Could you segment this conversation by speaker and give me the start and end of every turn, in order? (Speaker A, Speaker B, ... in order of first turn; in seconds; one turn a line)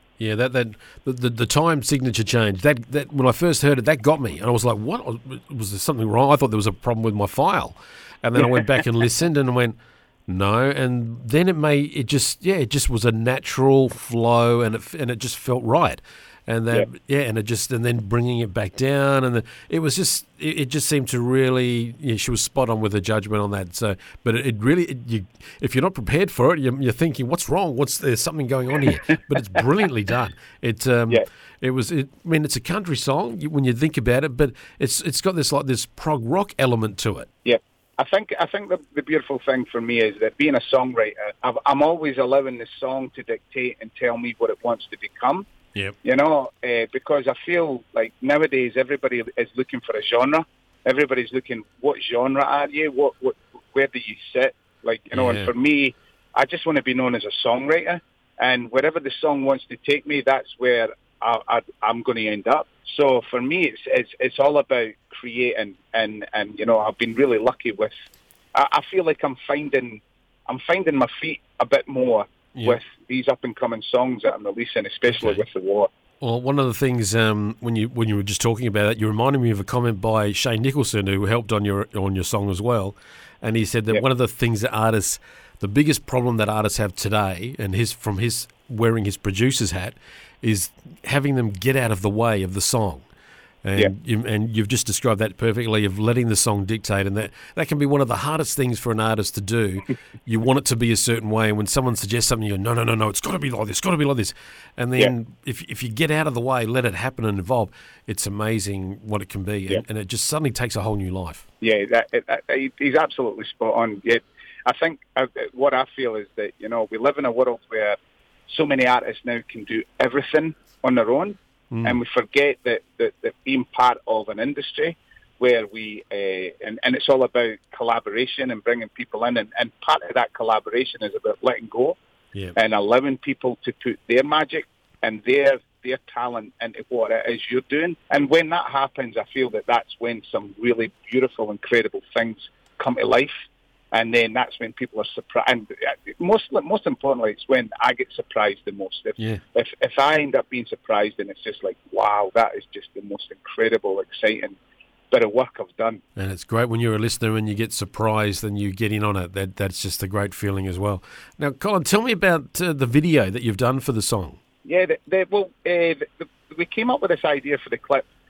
Speaker A: 0.2-37.3
Speaker B: 8.4-8.7
Speaker B: 37.5-45.5
Speaker B: 46.0-67.9
Speaker A: 55.1-55.5
Speaker B: 68.5-75.9
Speaker A: 75.1-75.4
Speaker A: 76.2-93.1
Speaker A: 93.6-111.4
Speaker B: 111.6-118.0
Speaker B: 118.5-132.0
Speaker A: 121.7-122.0
Speaker B: 132.6-143.3
Speaker B: 143.9-154.6
Speaker B: 155.1-156.0
Speaker A: 156.2-164.4
Speaker B: 164.7-168.1